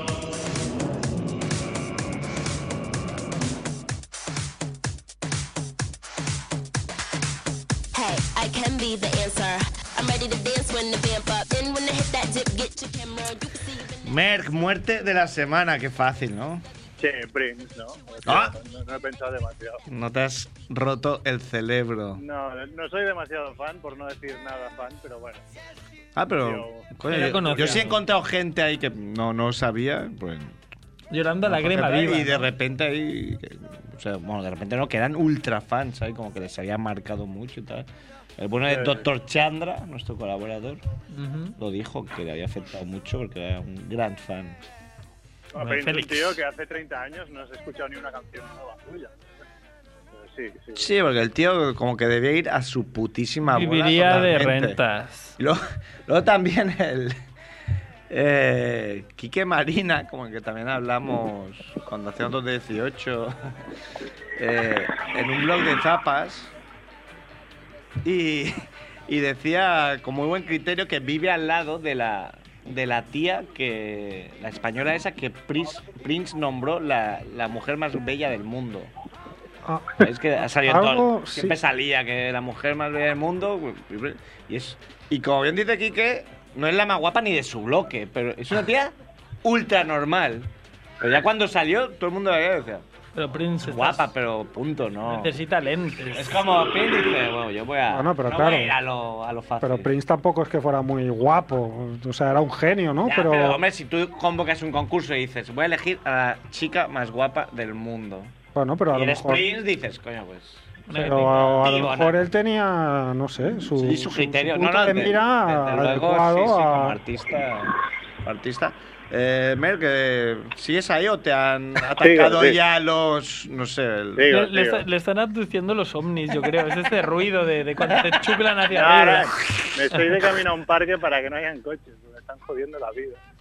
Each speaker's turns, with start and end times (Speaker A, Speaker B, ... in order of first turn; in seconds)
Speaker A: 7.9-14.0
Speaker B: 14.1-16.6, 18.3-18.5, 19.9-22.2, 26.2-30.6, 31.4-37.9, 38.4-40.8, 41.6-44.6, 50.8-54.8, 55.4-57.2, 58.1-63.3, 64.4-66.5, 68.0-78.9, 80.0-90.5, 91.0-92.8, 93.6-95.3, 96.1-99.9, 103.0-108.3, 108.9-112.2, 113.8-124.3
Speaker C: 17.0-19.8, 22.2-25.4, 26.4-27.9, 38.7-39.0, 45.5-49.2, 50.1-50.9, 122.0-122.6, 124.2-124.8, 128.7-133.2
Speaker D: 27.1-28.0, 31.1-32.5, 41.1-41.6, 45.6-46.4, 53.5-55.4, 93.2-94.1, 95.1-96.5, 110.9-112.0, 124.3-129.3
Speaker E: 79.7-81.6, 97.9-98.8, 99.6-103.6, 108.5-109.4, 110.9-117.0